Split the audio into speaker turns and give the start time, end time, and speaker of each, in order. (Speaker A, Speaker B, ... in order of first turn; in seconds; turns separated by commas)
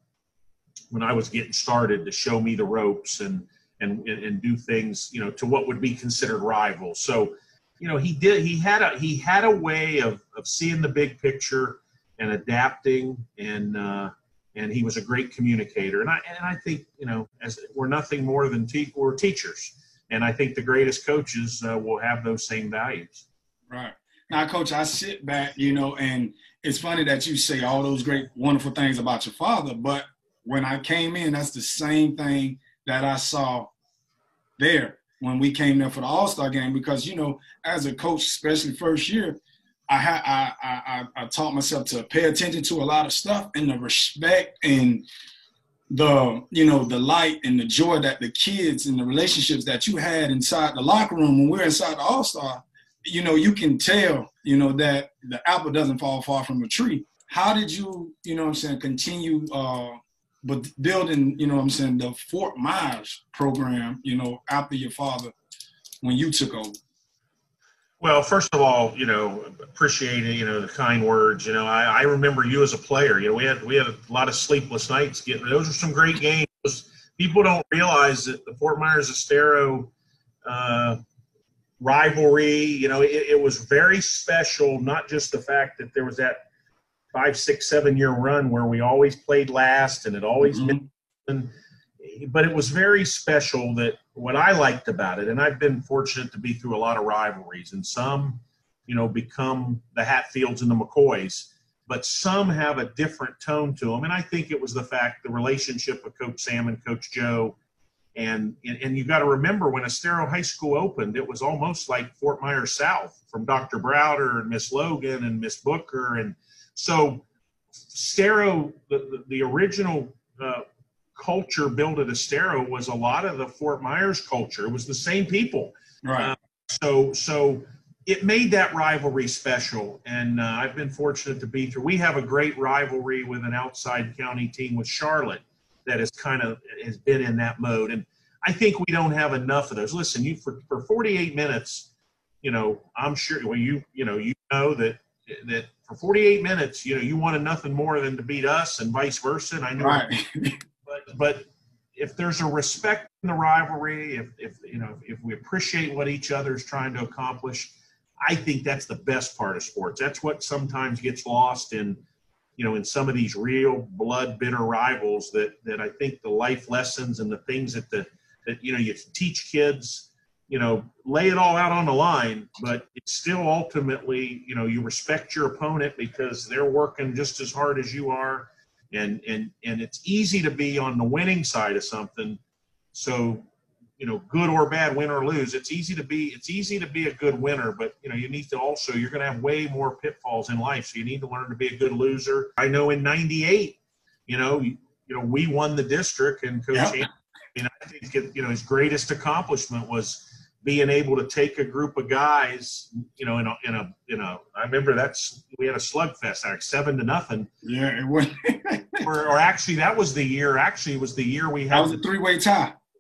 Speaker A: 0.9-23.2, Speaker B: 23.7-33.7, Speaker B: 34.6-45.0, Speaker B: 45.9-65.3, Speaker B: 66.0-66.8, Speaker A: 68.0-79.9, Speaker A: 80.5-81.0, Speaker A: 81.8-86.4, Speaker A: 87.1-107.6, Speaker B: 90.4-90.9, Speaker A: 108.2-117.2, Speaker A: 117.9-120.6, Speaker A: 121.2-141.9, Speaker B: 126.0-126.3, Speaker A: 142.4-150.0, Speaker B: 149.8-150.6, Speaker A: 150.9-162.0, Speaker A: 162.6-182.4, Speaker A: 182.9-183.4, Speaker A: 184.0-207.5, Speaker B: 207.6-209.1, Speaker A: 209.0-212.0, Speaker B: 211.7-212.8